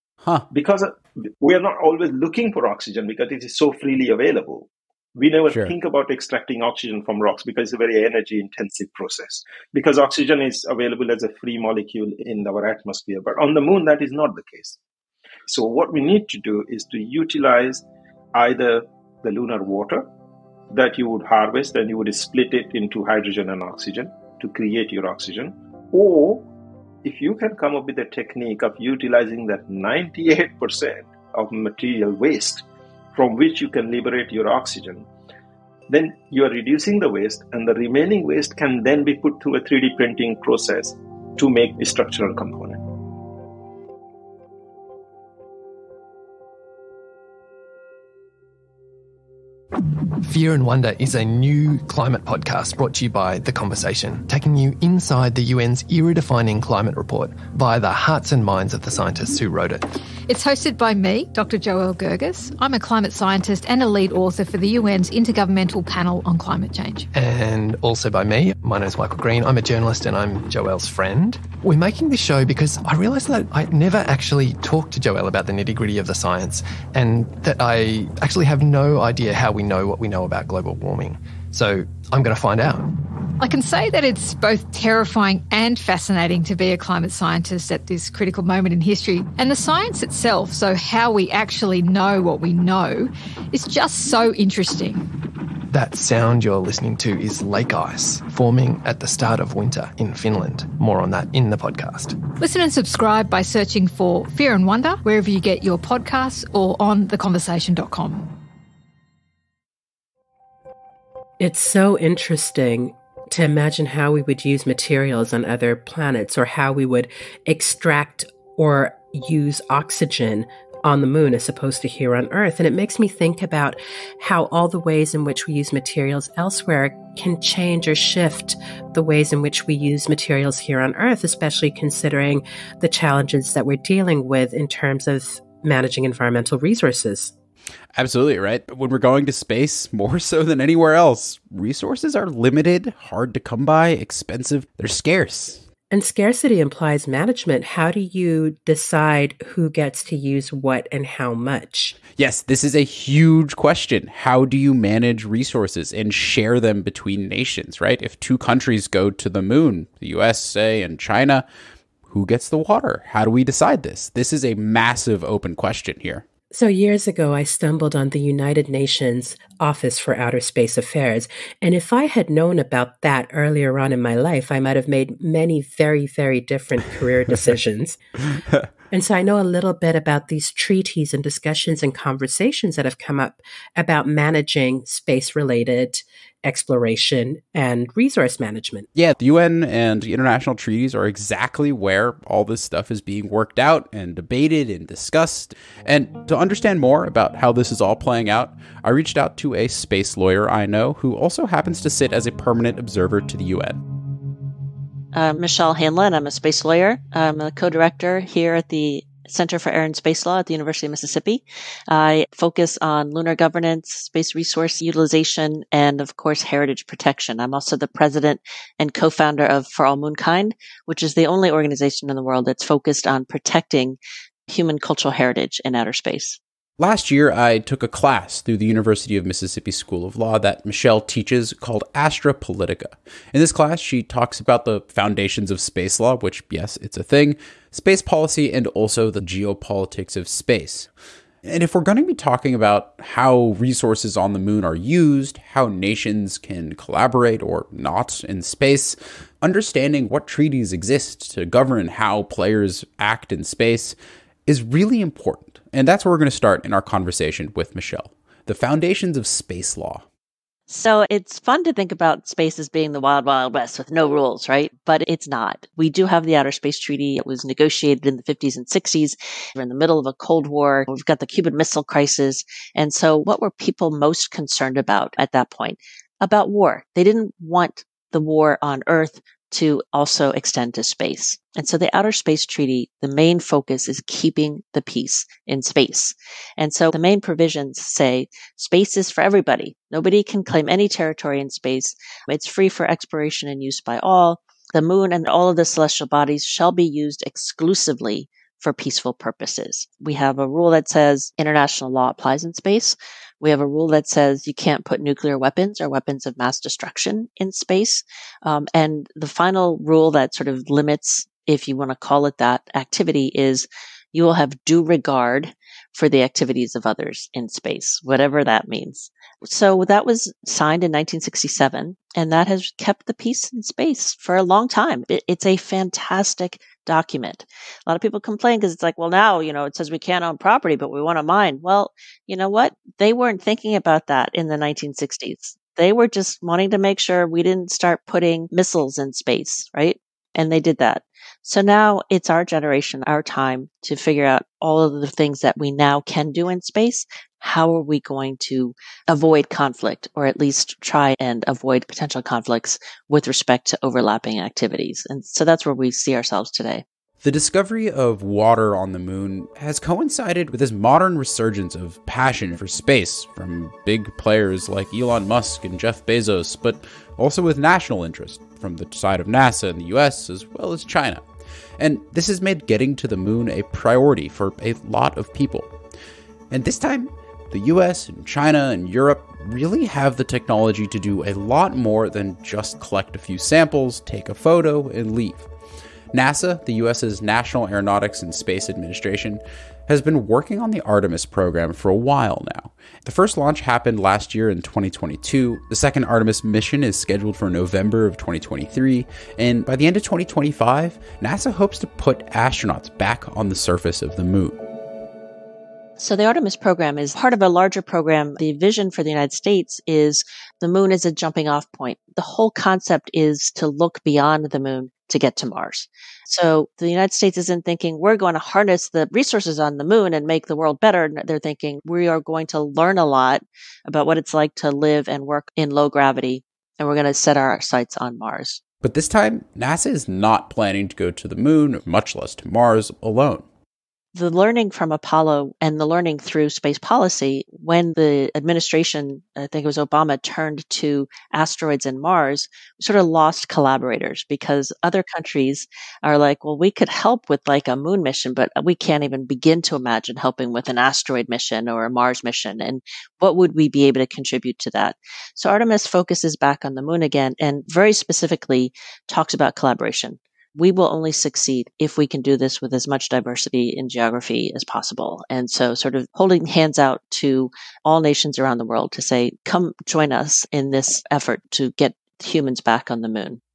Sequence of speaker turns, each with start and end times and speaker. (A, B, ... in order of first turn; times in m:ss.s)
0:00.5-0:14.8 A
0:05.5-0:05.7 B
0:15.5-0:20.1 A
0:20.7-0:26.5 A
0:27.0-0:35.1 A
0:35.9-0:42.8 A
0:50.2-0:59.9 C
1:00.3-1:07.1 D
1:07.1-1:23.0 C
1:23.4-1:35.1 D
1:35.7-1:42.2 C
1:42.4-1:48.3 D
1:51.4-2:17.3 E
2:18.0-2:25.6 B
2:25.9-2:32.0 E
2:32.2-2:41.4 B
2:42.1-2:46.2 B
2:46.5-2:58.0 E
2:58.9-3:08.9 E
3:09.0-3:23.8 B
3:25.1-3:46.4 F
3:46.8-4:00.9 B
4:01.4-4:20.0 B
4:20.7-5:56.8 F
5:57.2-6:11.2 B
6:11.8-6:15.7 B
6:16.5-6:25.5 B
6:26.1-6:44.6 B
6:46.0-7:08.6 F
7:08.8-7:13.5 B
7:14.1-7:53.4 F